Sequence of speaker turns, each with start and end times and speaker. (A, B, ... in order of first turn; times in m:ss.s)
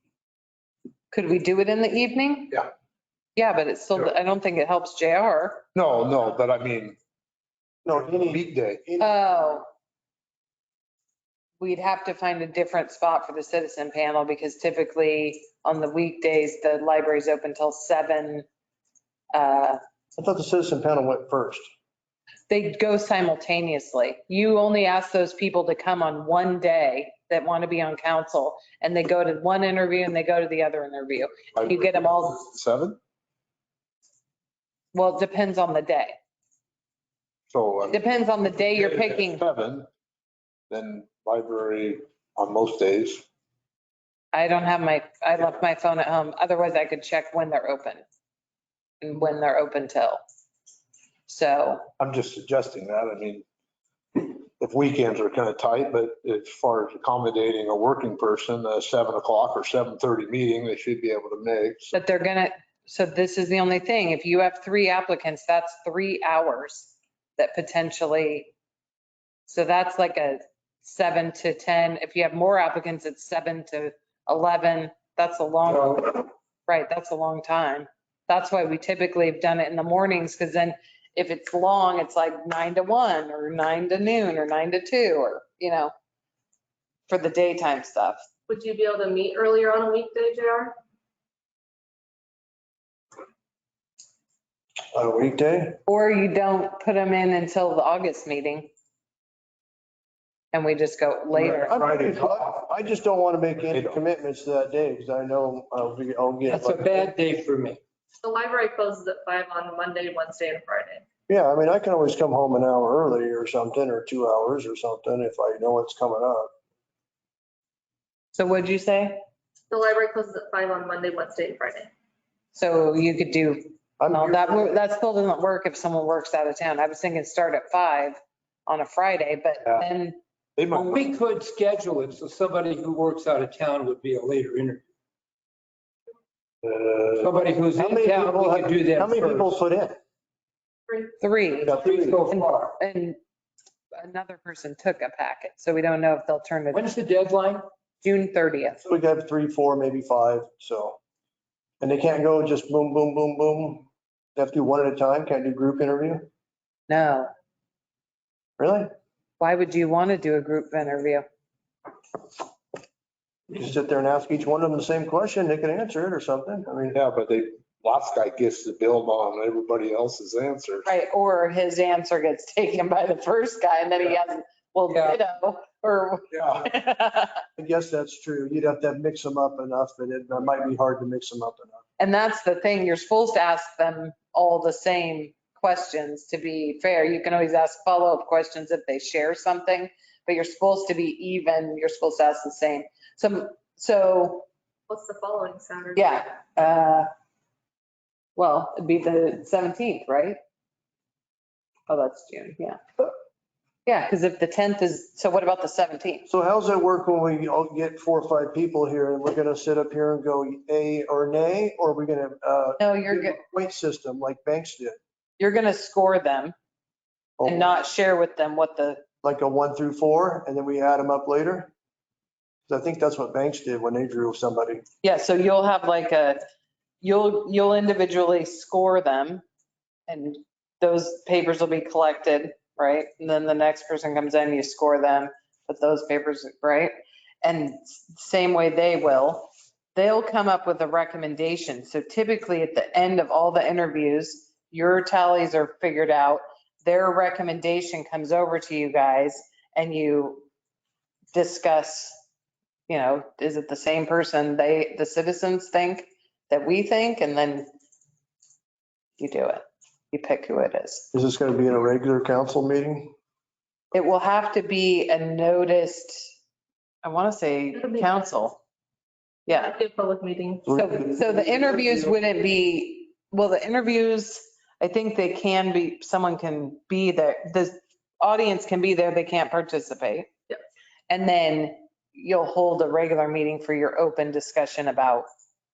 0:01.1-0:02.6 A
0:03.4-0:05.6 A
0:05.8-0:07.0 B
0:07.9-0:09.1 C
0:08.0-0:08.9 B
0:09.0-0:09.7 A
0:11.6-0:18.4 A
0:19.3-0:19.8 A
0:20.2-0:21.6 C
0:22.5-0:32.4 A
0:31.6-0:33.0 B
0:34.9-0:36.2 A
0:37.5-0:39.9 B
0:37.9-0:39.4 A
0:40.7-0:43.2 B
0:44.3-0:48.0 A
0:49.0-0:50.2 A
0:51.3-0:51.9 A
0:52.0-0:53.5 B
0:54.2-1:02.0 B
1:01.9-1:08.5 A
1:09.5-1:25.9 A
1:15.7-1:16.2 D
1:27.1-1:28.2 A
1:28.5-1:30.7 E
1:34.9-1:35.8 C
1:35.9-1:38.7 A
1:40.5-1:41.8 A
1:41.4-1:47.1 C
1:46.5-1:47.8 D
1:48.2-1:51.0 E
1:51.3-1:56.5 C
1:58.4-1:59.2 A
1:59.7-2:01.9 E
2:02.5-2:10.2 A
2:04.0-2:04.8 C
2:10.6-2:11.1 B
2:10.7-2:11.0 A
2:10.9-2:14.8 D
2:16.7-2:17.2 C
2:17.2-2:19.5 D
2:17.8-2:20.0 C
2:21.2-2:23.2 A
2:21.6-2:22.7 D
2:21.6-2:22.2 C
2:24.0-2:26.9 A
2:26.7-2:27.7 D
2:28.0-2:28.8 A
2:28.8-2:31.0 C
2:31.8-2:36.3 C
2:36.9-2:37.3 A
2:38.6-2:38.9 C
2:39.4-2:41.2 A
2:43.5-2:47.0 C
2:46.9-2:50.9 B
2:50.8-2:57.4 A
2:54.9-2:55.2 D
2:56.4-2:56.7 B
2:57.6-3:01.8 C
3:02.0-3:14.5 A
3:14.9-3:16.1 E
3:16.0-3:17.1 A
3:18.4-3:20.4 A
3:21.9-3:23.1 A
3:23.9-3:26.3 A
3:26.3-3:35.0 C
3:32.8-3:33.4 A
3:35.4-3:36.6 A
3:37.4-3:37.7 C
3:37.4-3:39.0 A
3:39.2-3:41.7 C
3:42.7-3:44.8 C
3:45.0-3:46.4 A
3:47.0-3:49.4 A
3:50.1-4:10.4 A
4:11.3-4:12.2 A
4:12.9-4:17.7 A
4:19.2-4:21.1 A
4:21.1-4:23.1 C
4:23.9-4:26.3 A
4:27.0-4:28.6 A
4:27.8-4:28.1 E
4:29.5-4:29.7 A
4:29.6-4:30.6 E
4:30.6-4:31.9 C
4:30.7-4:40.3 A
4:41.1-4:45.3 A